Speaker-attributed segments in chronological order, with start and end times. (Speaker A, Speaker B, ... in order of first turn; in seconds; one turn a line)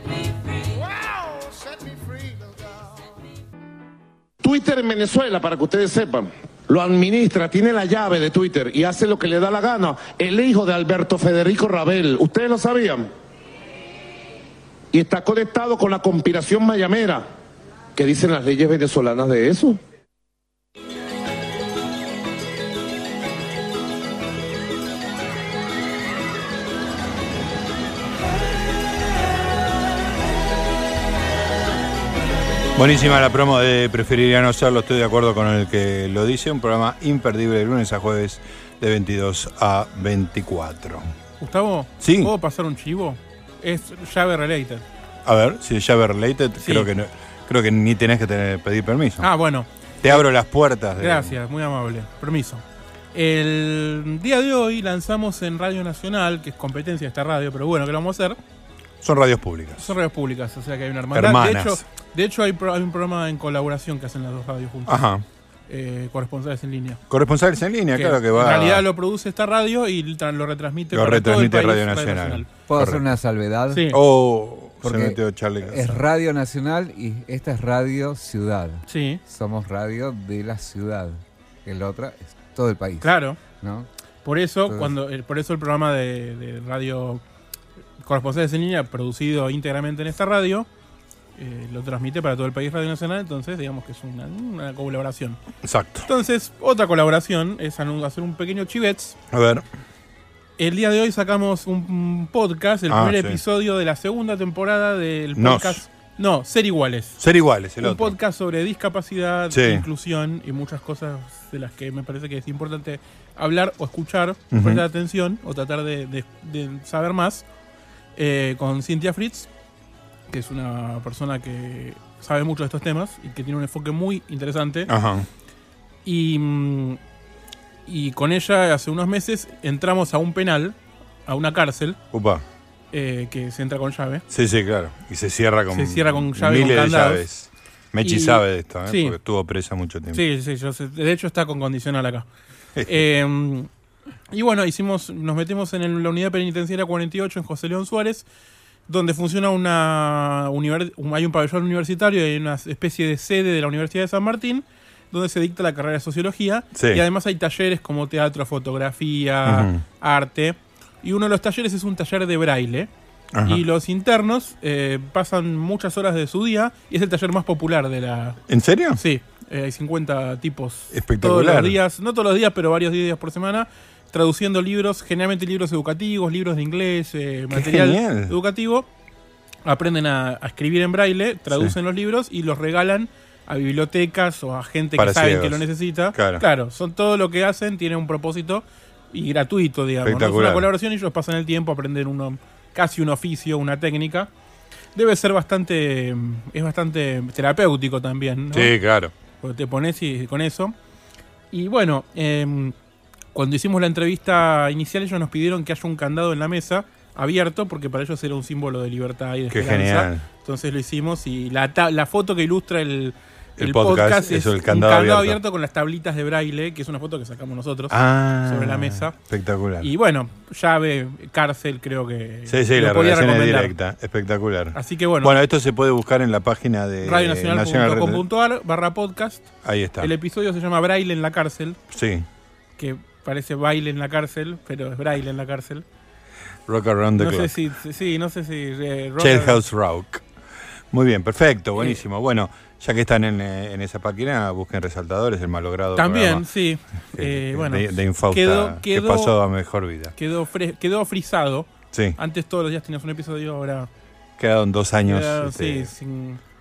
Speaker A: 0.7-3.0
Speaker B: 4.4-13.1
Speaker B: 14.9-17.2
Speaker B: 17.9-19.8
Speaker C: 32.8-41.1
Speaker D: 41.4-44.9
Speaker C: 42.0-42.3
Speaker C: 45.2-49.3
Speaker D: 46.6-46.9
Speaker D: 49.2-50.3
Speaker C: 50.0-51.4
Speaker D: 51.0-52.6
Speaker D: 53.1-58.4
Speaker C: 59.0-59.9
Speaker D: 59.8-65.0
Speaker C: 61.1-61.8
Speaker C: 64.9-65.2
Speaker D: 65.7-67.0
Speaker C: 67.1-68.8
Speaker D: 67.9-72.5
Speaker C: 70.9-73.0
Speaker E: 72.7-73.9
Speaker D: 73.7-74.0
Speaker C: 73.9-76.0
Speaker E: 74.8-75.2
Speaker E: 75.7-83.9
Speaker D: 78.9-79.2
Speaker D: 83.0-83.4
Speaker D: 84.2-87.2
Speaker E: 84.7-84.9
Speaker D: 88.0-90.7
Speaker D: 91.4-95.4
Speaker C: 95.6-96.1
Speaker D: 96.1-99.2
Speaker C: 99.3-99.7
Speaker D: 100.6-107.2
Speaker C: 102.9-103.4
Speaker C: 105.4-105.8
Speaker C: 107.2-108.2
Speaker D: 107.8-117.4
Speaker C: 109.5-109.9
Speaker C: 114.5-114.8
Speaker D: 118.2-119.5
Speaker D: 120.3-124.9
Speaker C: 124.9-125.3
Speaker D: 126.0-127.0
Speaker D: 127.9-132.0
Speaker C: 132.1-132.4
Speaker D: 132.9-134.2
Speaker C: 134.3-140.2
Speaker D: 135.7-137.2
Speaker D: 138.0-139.2
Speaker D: 140.1-142.3
Speaker C: 142.8-143.0
Speaker D: 142.9-143.7
Speaker D: 144.3-148.2
Speaker D: 148.9-162.9
Speaker C: 156.8-157.0
Speaker C: 159.4-159.8
Speaker C: 163.3-163.6
Speaker D: 163.4-168.4
Speaker C: 168.5-169.0
Speaker D: 168.9-178.9
Speaker C: 170.9-171.8
Speaker C: 177.5-178.4
Speaker D: 179.7-194.3
Speaker C: 185.0-186.4
Speaker C: 190.0-190.7
Speaker D: 194.9-198.7
Speaker C: 198.5-199.1
Speaker D: 199.4-200.7
Speaker D: 201.5-202.7
Speaker D: 203.3-219.2
Speaker C: 209.5-210.2
Speaker C: 213.6-215.4
Speaker C: 217.9-219.9
Speaker D: 219.8-223.7
Speaker C: 222.5-228.2
Speaker D: 224.8-225.4
Speaker D: 227.0-229.5
Speaker C: 229.6-230.1
Speaker D: 230.0-231.8
Speaker C: 231.9-232.3
Speaker D: 232.8-235.8
Speaker C: 236.7-237.5
Speaker D: 237.2-239.6
Speaker C: 239.2-240.2
Speaker C: 240.9-246.5
Speaker D: 246.0-249.3
Speaker C: 247.2-250.1
Speaker D: 250.2-253.9
Speaker C: 251.9-252.2
Speaker C: 254.4-255.9
Speaker D: 255.1-256.4